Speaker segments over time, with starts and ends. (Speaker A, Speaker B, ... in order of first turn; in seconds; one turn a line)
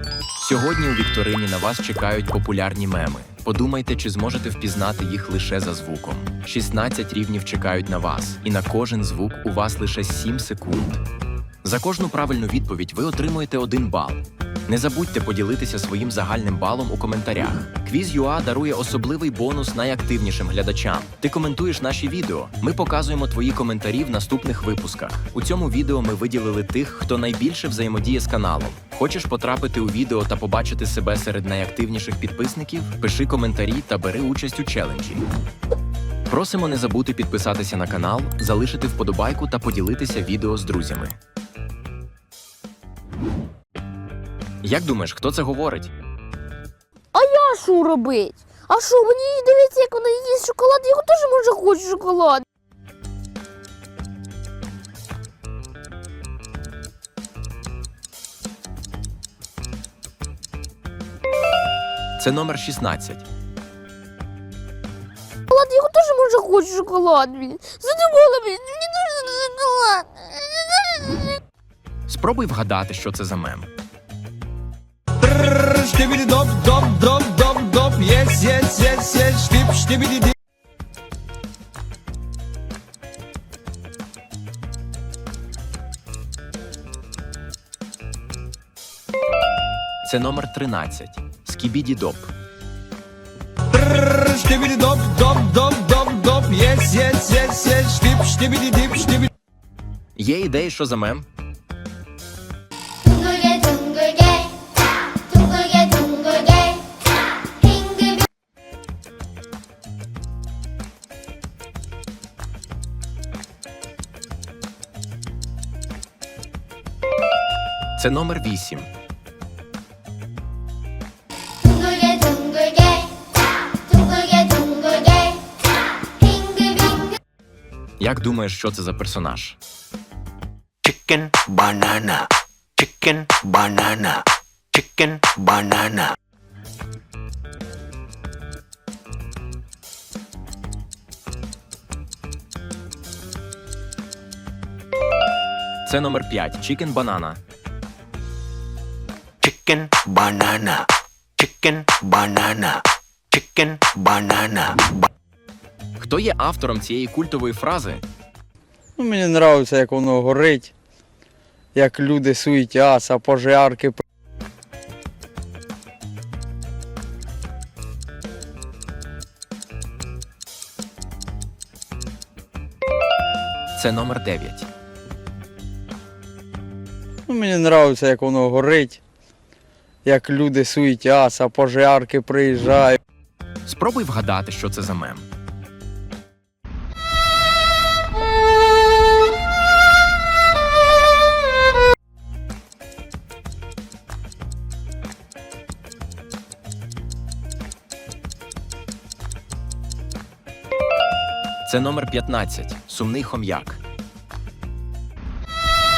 Speaker A: 0.4-11.0
Speaker A: 11.6-35.2
Speaker A: 36.3-41.2
Speaker A: 44.6-45.9
Speaker B: 47.1-52.5
Speaker A: 62.2-63.2
Speaker B: 65.5-71.3
Speaker A: 72.1-73.7
Speaker C: 75.2-80.3
Speaker A: 90.0-92.3
Speaker C: 93.7-99.3
Speaker A: 100.2-101.3
Speaker D: 103.0-104.6
Speaker D: 105.3-106.9
Speaker D: 107.6-108.2
Speaker A: 118.0-118.9
Speaker D: 121.6-123.1
Speaker D: 123.9-125.5
Speaker D: 126.2-127.2
Speaker A: 128.0-129.6
Speaker E: 130.8-132.2
Speaker D: 131.3-132.3
Speaker E: 132.8-134.1
Speaker D: 132.8-134.2
Speaker E: 134.8-135.5
Speaker D: 135.2-136.1
Speaker A: 145.9-147.4
Speaker E: 149.4-150.7
Speaker D: 149.8-150.8
Speaker D: 151.4-152.8
Speaker E: 151.6-152.6
Speaker E: 153.3-154.6
Speaker D: 153.4-154.9
Speaker A: 156.0-158.0
Speaker F: 159.0-160.7
Speaker F: 161.8-164.0
Speaker A: 173.8-174.7
Speaker F: 177.3-179.0
Speaker F: 180.1-183.0
Speaker A: 183.7-185.3
Speaker A: 201.7-203.8